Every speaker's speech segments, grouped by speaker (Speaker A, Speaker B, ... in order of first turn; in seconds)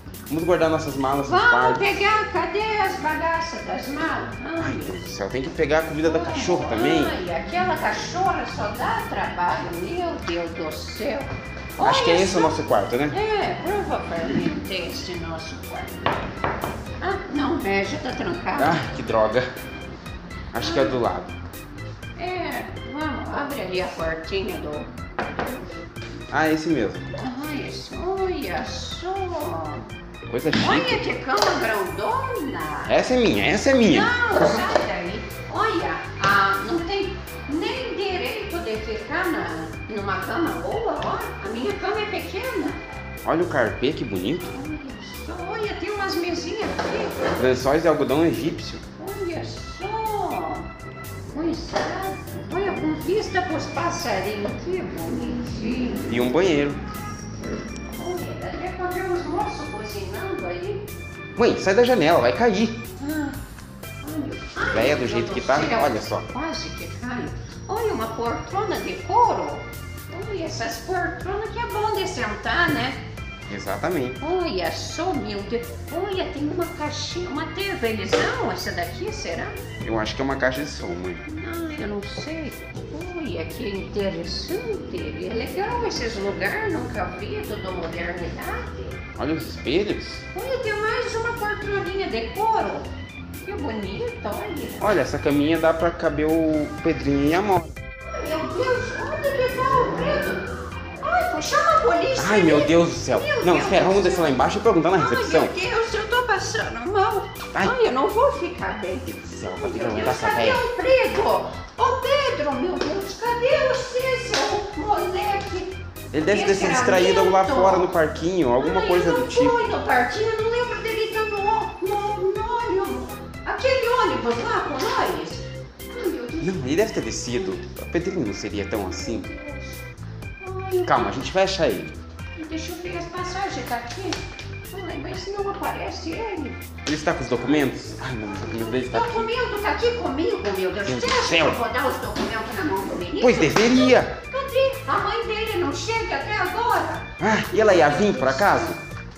Speaker A: 0.3-1.9, 4.6-7.2, 11.8-13.2, 18.6-19.5, 20.5-21.3, 26.3-27.1, 30.3-31.0, 32.9-34.6, 43.2-44.5, 47.3-48.8, 56.1-56.8, 61.4-62.8, 64.7-66.3, 73.5-74.2, 79.8-81.2, 89.2-90.2, 94.8-97.7, 102.2-105.5, 109.1-110.6, 116.1-119.6, 126.4-129.3, 130.8-132.0, 136.9-139.3, 140.9-141.6, 143.2-144.1, 147.2-148.8
Speaker B: 1.3-5.0, 6.0-12.6, 13.1-16.1, 17.0-18.8, 20.6-21.0, 22.2-24.9, 27.2-29.9, 30.6-33.0, 33.8-42.8, 44.5-47.2, 49.0-50.7, 51.3-56.1, 58.0-60.9, 63.0-63.4, 64.0-73.0, 74.2-79.6, 81.2-89.0, 90.3-92.9, 93.4-95.0, 98.0-100.4, 101.0-104.4, 105.0-115.7, 116.2-117.9, 118.6-126.5, 128.9-129.8, 130.4-131.1, 132.4-136.6, 138.7-147.1, 147.9-148.6